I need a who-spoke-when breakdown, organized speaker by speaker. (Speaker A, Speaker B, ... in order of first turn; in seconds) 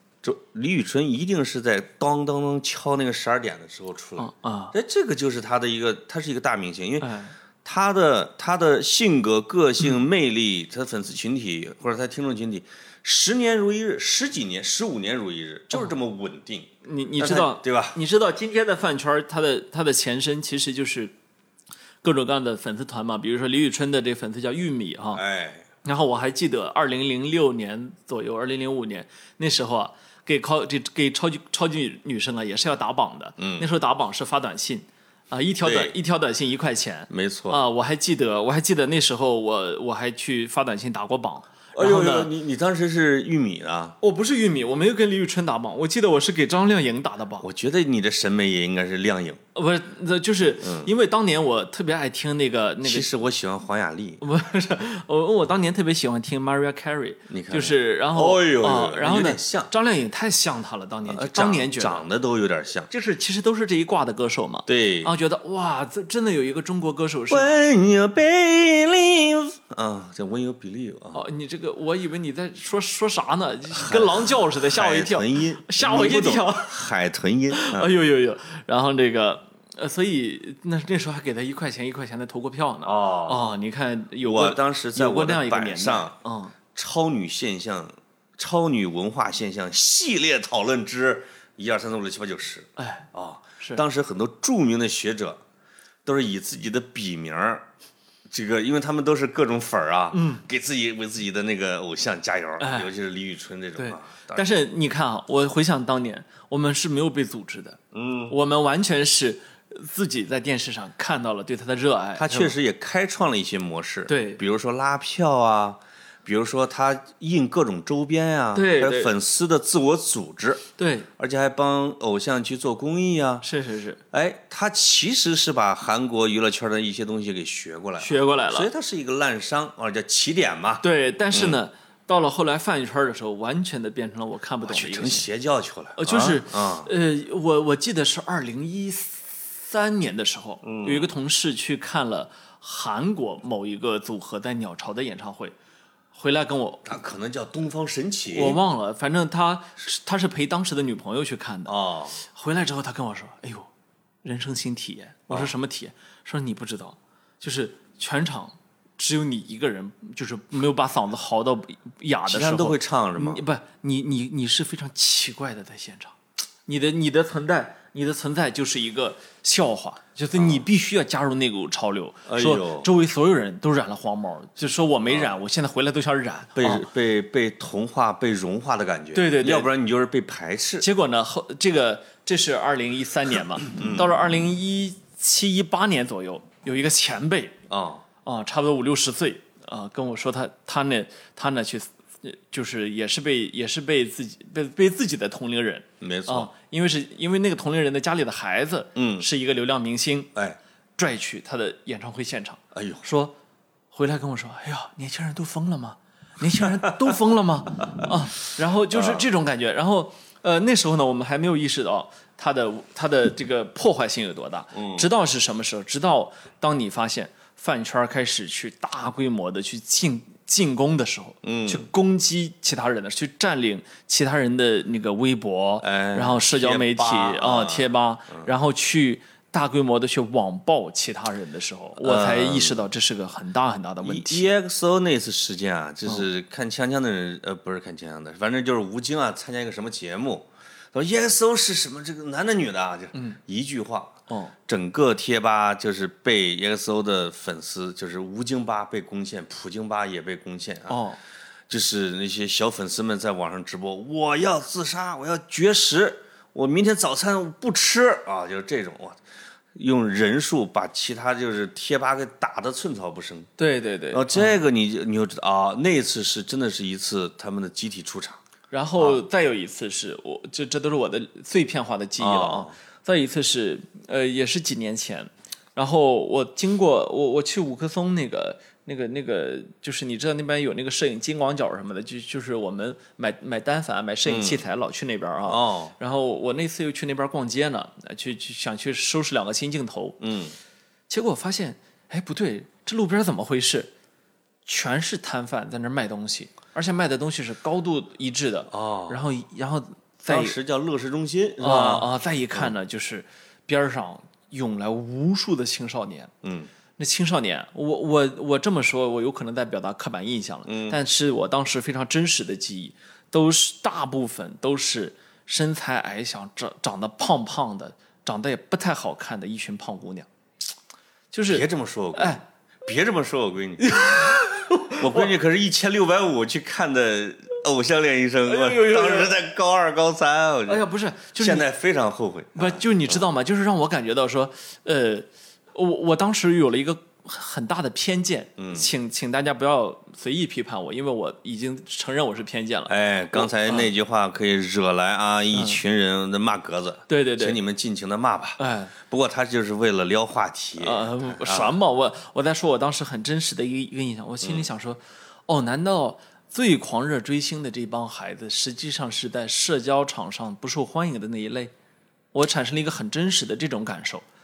Speaker A: 0.2-7.1, 7.6-18.0, 25.1-25.7, 33.4-33.7, 35.6-35.9, 37.1-37.6, 41.7-44.0, 47.4-49.4, 50.6-50.9, 52.8-54.2, 57.3-59.7, 61.1-62.9, 64.7-65.1, 67.3-71.2, 73.7-77.9, 82.8-83.5, 84.2-86.2, 86.7-95.4, 96.0-97.7, 98.3-104.5, 107.9-108.3, 112.2-120.7, 121.2-123.5, 124.1-131.6, 134.6-136.9, 140.6-141.1, 146.8-148.6, 151.7-152.2, 162.3-163.4, 170.3-170.6, 172.2-172.9, 175.1-175.3, 176.6-180.8, 183.7-184.2, 187.7-188.0, 196.0-196.5, 198.9-199.2, 202.7-203.0, 208.9-209.3, 214.7-215.1, 221.4-221.9, 225.8-228.5, 232.0-232.8, 234.0-244.2, 244.7-251.0, 251.7-259.2, 259.7-263.5, 264.1-268.4, 272.2-272.7, 284.2-284.6, 285.5-285.9, 290.2-290.5, 298.7-299.2, 300.3-302.7, 306.4-306.7, 310.7-311.0, 321.5-324.4, 325.0-330.8, 331.4-333.2, 338.6-338.9, 342.9-351.7
Speaker B: 4.2-4.7, 7.0-7.3, 16.8-21.1, 22.0-25.2, 25.8-42.3, 44.0-47.5, 49.5-53.1, 54.2-62.0, 62.9-67.5, 71.1-76.7, 77.5-86.5, 92.8-93.1, 100.1-100.4, 102.6-102.9, 103.8-112.5, 114.1-114.4, 118.5-119.1, 120.8-121.1, 123.4-124.0, 128.0-128.7, 130.8-135.3, 136.0-145.5, 146.1-146.9, 148.3-153.7, 154.2-176.9, 179.1-179.7, 180.8-187.6, 188.2-200.3, 201.0-203.3, 203.9-234.5, 244.3-244.5, 250.9-251.2, 263.6-264.5, 268.7-290.2, 291.1-293.9, 294.6-300.6, 301.6-306.3, 307.0-320.3, 321.3-322.4, 323.8-325.3, 328.4-329.4, 330.7-331.6, 332.5-343.9, 345.5-345.8, 347.1-347.6, 348.6-348.9, 350.8-361.7, 362.3-364.2